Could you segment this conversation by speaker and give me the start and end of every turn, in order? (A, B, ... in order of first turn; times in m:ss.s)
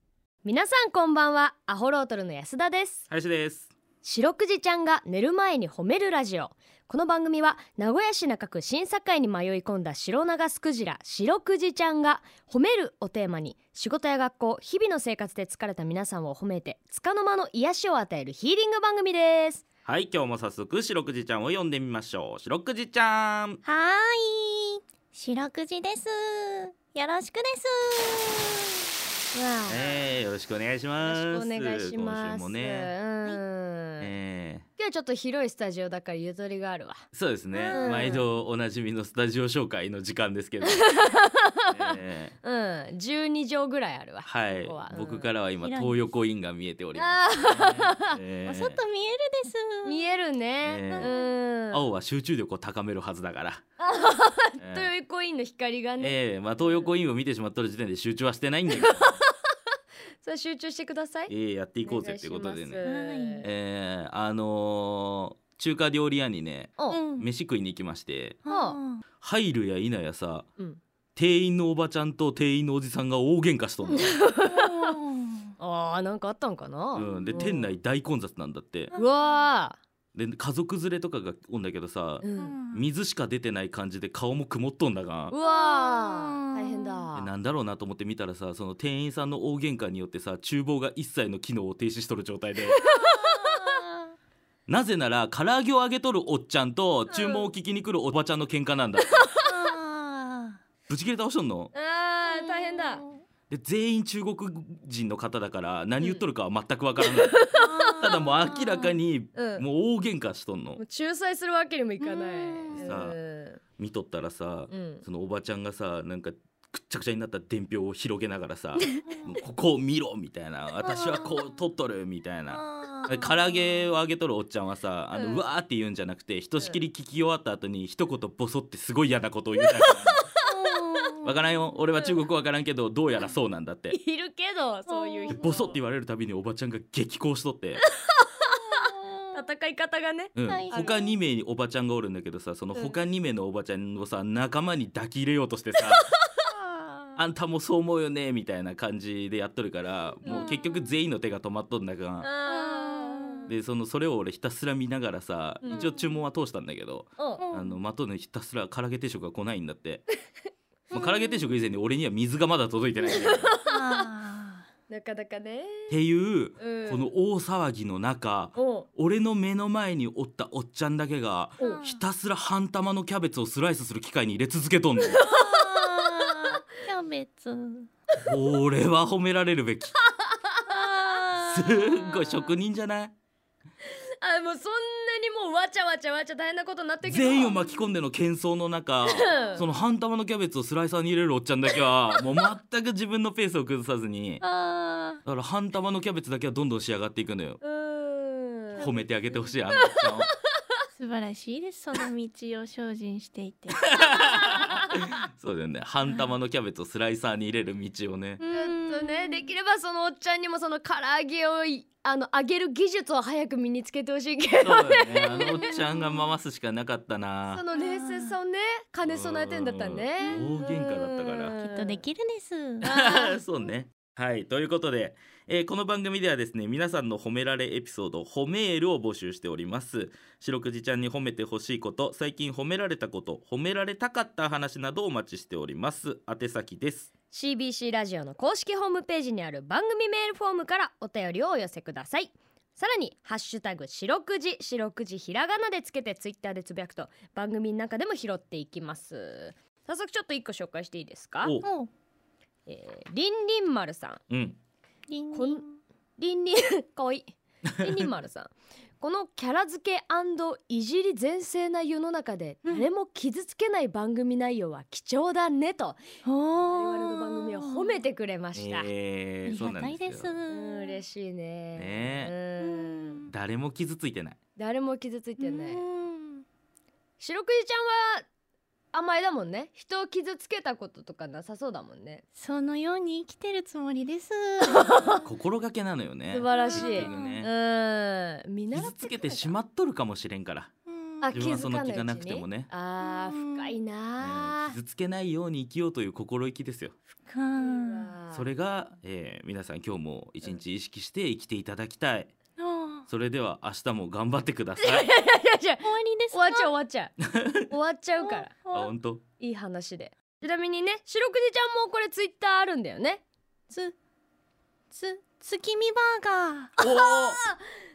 0:00.4-0:03.0 A
0:03.1-0:03.7 B
0:04.0-0:19.6 A
0:19.8-0:23.6 B
0:23.6-0:28.7 C
0:29.3-0:30.0 A
0:29.7-0:32.9 B
0:31.0-0:34.1 A
0:34.0-0:34.6 B
0:34.8-0:37.1 A
0:37.1-0:40.8 B
0:37.5-0:38.2 C
0:37.7-0:38.2 A
0:40.6-0:45.3 A
0:41.7-0:42.3 B
0:44.2-0:48.8 B
0:45.6-0:46.1 C
0:47.0-0:48.2 A
0:48.4-0:50.1 C
0:49.8-0:51.9 A
0:50.6-0:51.1 B
0:50.9-0:51.3 C
0:51.7-0:53.6 B
0:53.8-0:56.9 A
0:54.6-0:54.9 B
0:56.0-0:59.2 B
0:58.7-0:59.3 A
1:00.2-1:01.3 A
1:01.3-1:02.8 B
1:01.8-1:03.5 A
1:02.8-1:03.4 C
1:03.4-1:08.4 B
1:06.9-1:07.3 C
1:08.4-1:09.0 C
1:08.5-1:08.8 A
1:09.2-1:10.5 B
1:11.2-1:14.1 B
1:13.9-1:14.9 A
1:14.4-1:15.5 C
1:15.6-1:17.7 A
1:16.9-1:18.9 B
1:17.0-1:17.5 C
1:18.9-1:19.4 C
1:18.9-1:19.8 A
1:20.1-1:25.3 B
1:22.2-1:22.6 A
1:22.4-1:22.9 C
1:25.3-1:27.3 A
1:25.4-1:27.0 C
1:27.1-1:32.8 B
1:32.7-1:33.8 A
1:32.9-1:34.1 C
1:34.7-1:39.3 B
1:37.1-1:37.5 A
1:39.0-1:39.5 A
1:39.4-1:40.6 C
1:40.9-1:41.7 B
1:41.7-1:43.0 A
1:42.2-1:43.2 C
1:43.5-1:50.8 B
1:46.0-1:46.2 A
1:47.0-1:48.0 A
1:47.5-1:49.0 C
1:49.3-1:49.6 A
1:50.8-1:53.6 A
1:52.0-1:53.0 C
1:52.8-1:53.2 B
1:53.8-2:10.2 B
1:54.7-1:55.0 A
1:59.1-1:59.3 C
2:00.8-2:01.4 C
2:02.5-2:03.3 C
2:05.1-2:05.4 A
2:09.6-2:10.4 A
2:10.4-2:11.4 C
2:11.2-2:14.0 B
2:13.9-2:15.8 A
2:14.9-2:15.6 C
2:15.3-2:17.8 B
2:18.2-2:21.0 A
2:18.5-2:19.4 C
2:20.4-2:26.1 B
2:20.4-2:21.1 C
2:22.7-2:23.0 A
2:25.8-2:26.1 A
2:26.4-2:27.2 C
2:27.2-2:32.3 B
2:30.2-2:30.9 C
2:30.2-2:30.5 A
2:32.2-2:33.5 A
2:32.5-2:33.5 C
2:33.5-2:40.0 B
2:35.6-2:35.9 A
2:35.7-2:36.2 C
2:37.2-2:37.4 A
2:37.4-2:37.8 C
2:40.9-2:41.5 C
2:40.9-2:43.5 B
2:43.0-2:44.0 A
2:43.6-2:44.6 C
2:44.9-2:46.0 A
2:45.9-2:55.2 B
2:46.6-2:47.1 A
2:48.5-2:48.9 A
2:51.6-2:52.0 C
2:55.0-2:56.6 A
2:55.2-2:57.9 C
2:58.2-2:59.9 B
3:00.0-3:01.2 A
3:00.7-3:02.4 C
3:01.4-3:03.1 B
3:04.2-3:07.6 A
3:07.0-3:14.4 B
3:09.0-3:09.6 A
3:09.3-3:09.6 C
3:14.4-3:15.2 C
3:15.2-3:17.6 B
3:17.6-3:18.9 A
3:18.8-3:19.0 C
3:18.8-3:20.3 B
3:19.7-3:20.0 A
3:21.0-3:24.6 C
3:23.9-3:28.4 B
3:24.4-3:24.8 A
3:26.0-3:26.3 C
3:28.4-3:29.5 C
3:28.5-3:35.8 A
3:34.6-3:37.6 B
3:35.3-3:36.3 C
3:37.5-3:42.0 A
3:37.7-3:38.4 C
3:39.0-3:41.6 B
3:40.2-3:40.7 C
3:41.6-3:42.9 C
3:42.8-3:43.4 A
3:42.8-3:57.1 B
3:57.3-4:11.6 A
4:11.4-4:11.7 B
4:11.6-4:11.9 C
4:12.7-4:14.2 A
4:14.3-4:14.6 B
4:15.1-4:15.8 C
4:15.3-4:15.6 A
4:16.2-4:26.0 A
4:26.2-4:28.0 C
4:26.6-4:28.9 A
4:28.5-4:30.4 B
4:29.4-4:31.0 C
4:30.5-4:33.2 A
4:31.8-4:32.3 B
4:32.6-4:33.3 C
4:33.3-4:34.4 B
4:34.6-4:35.8 A
4:35.4-4:36.4 C
4:37.2-4:38.2 A
4:38.9-4:42.2 A
4:42.4-4:45.2 C
4:44.7-4:45.2 A
4:45.2-4:47.5 B
4:46.3-4:49.6 A
4:46.5-4:47.4 C
4:48.7-4:50.7 B
4:50.9-4:51.3 C
4:51.2-4:54.8 A
4:51.3-4:52.7 B
4:53.0-4:53.7 C
4:54.2-4:56.9 B
4:57.3-4:58.1 C
4:57.6-4:58.4 A
4:58.3-5:02.3 B
5:02.6-5:03.0 C
5:03.1-5:05.1 B
5:04.8-5:08.5 A
5:05.8-5:06.7 C
5:07.3-5:07.7 B
5:08.2-5:08.9 C
5:08.7-5:09.2 B
5:09.4-5:13.2 A
5:14.9-5:16.7 C
5:16.8-5:17.6 A
5:16.8-5:17.4 B